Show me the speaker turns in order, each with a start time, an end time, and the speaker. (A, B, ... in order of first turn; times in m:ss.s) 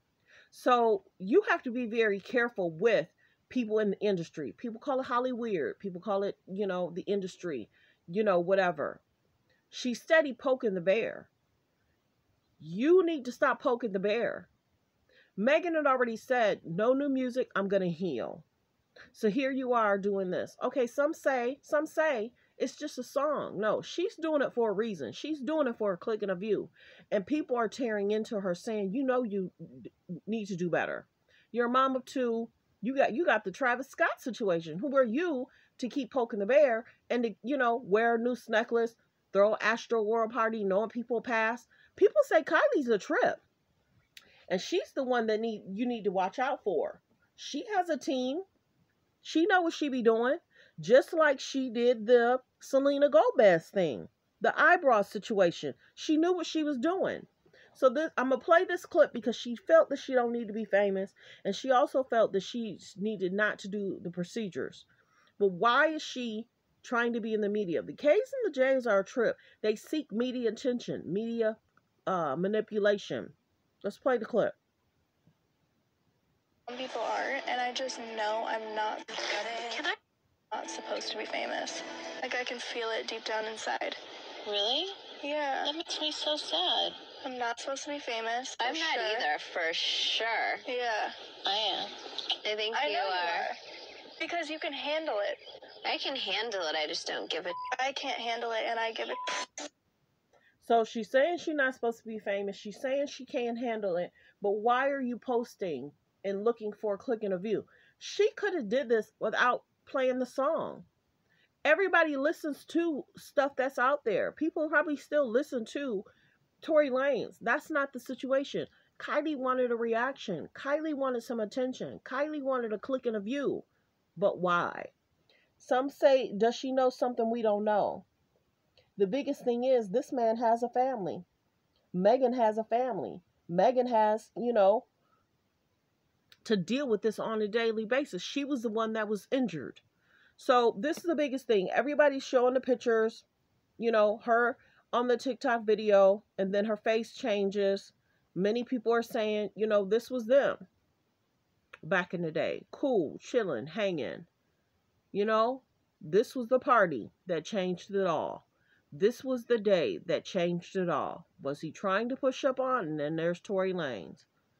0:00.5-0:09.0 A
0:09.7-0:11.3 A
0:12.6-0:14.5 A
0:15.4-0:18.4 A
0:19.1-0:43.4 A
0:44.5-0:48.4 A
0:49.2-1:04.9 A
1:05.4-1:14.6 A
1:16.7-1:19.8 B
1:19.7-1:20.0 C
1:20.5-1:24.0 B
1:24.4-1:25.0 C
1:25.2-1:25.7 B
1:25.6-1:27.0 C
1:27.2-1:29.3 B
1:28.6-1:30.6 C
1:30.6-1:31.2 B
1:31.4-1:33.5 C
1:32.7-1:33.6 B
1:34.2-1:35.4 B
1:35.8-1:37.6 C
1:37.7-1:39.5 B
1:40.6-1:50.9 A
1:51.6-1:56.1 A
1:56.6-2:04.9 A
2:05.6-2:08.1 A
2:09.0-2:11.2 A
2:11.9-2:14.9 A
2:16.4-2:19.8 A
2:20.4-2:23.3 A
2:23.8-2:30.6 A
2:31.8-2:34.3 A
2:35.1-2:44.3 A